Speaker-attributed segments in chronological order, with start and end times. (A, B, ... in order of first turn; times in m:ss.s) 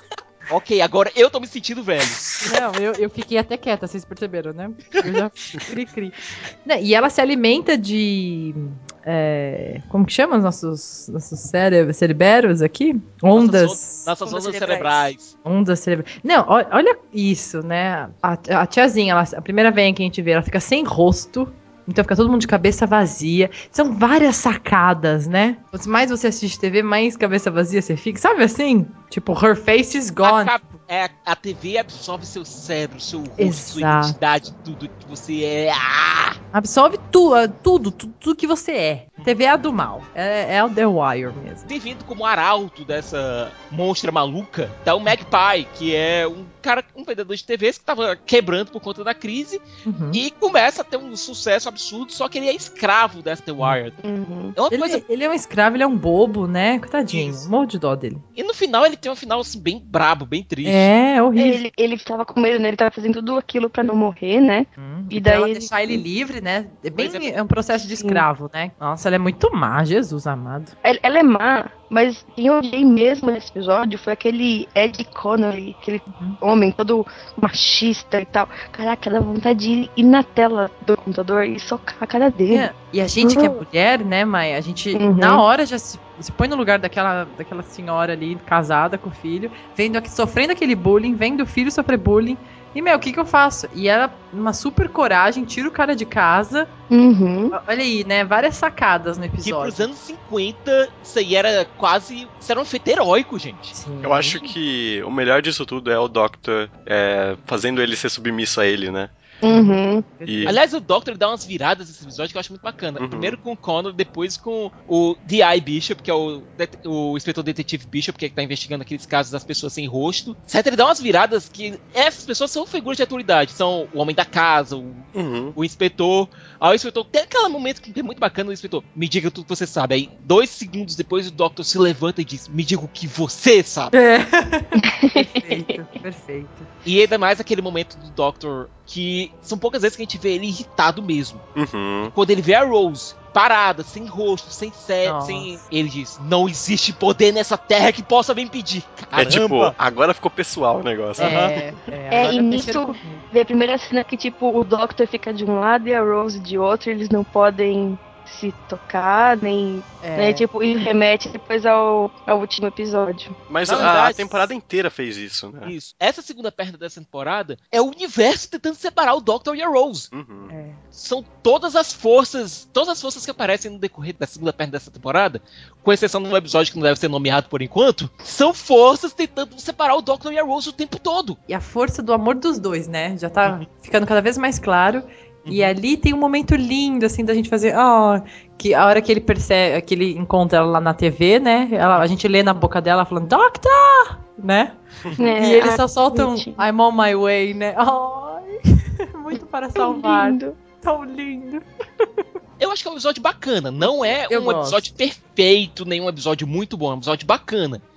0:00.5-0:02.3 A
0:02.4-0:14.1 B
0:13.3-0:15.3 A
0:14.2-0:15.1 C
0:15.4-0:30.6 B
0:30.2-0:36.4 A
0:33.4-0:34.2 B
0:36.5-0:41.6 B
0:41.6-0:54.0 A
0:49.8-0:50.2 B
0:54.0-0:54.6 C
0:54.6-0:55.0 A
0:54.7-0:58.2 B
0:57.1-0:57.5 A
0:58.4-1:00.9 A
1:00.6-1:01.6 B
1:01.4-1:06.0 C
1:04.8-1:10.7 B
1:07.0-1:07.3 A
1:08.0-1:08.2 C
1:10.8-1:23.6 C
1:22.5-1:36.7 B
1:24.9-1:25.4 C
1:36.9-1:37.6 C
1:37.5-1:39.9 B
1:39.4-1:43.7 A
1:43.7-1:44.5 B
1:44.0-1:49.1 D
1:49.4-1:50.0 C
1:49.5-1:50.6 B
1:50.2-1:50.6 D
1:50.4-2:13.9 A
1:53.0-1:53.4 D
2:05.1-2:05.6 D
2:13.9-2:16.7 B
2:14.8-2:15.8 C
2:16.8-2:21.4 A
2:21.5-2:22.1 D
2:22.1-2:29.7 A
2:25.0-2:25.6 B
2:29.1-2:31.5 D
2:31.2-2:33.2 B
2:31.2-2:31.6 A
2:32.1-2:43.4 C
2:40.0-2:40.4 B
2:43.5-2:45.7 D
2:43.6-2:44.4 A
2:45.6-2:50.1 A
2:50.1-2:50.5 D
2:50.5-2:50.8 B
2:50.9-3:01.4 A
3:01.5-3:22.2 B
3:05.4-3:05.7 A
3:15.2-3:16.6 C
3:19.8-3:20.6 C
3:22.6-3:27.8 A
3:24.0-3:24.9 B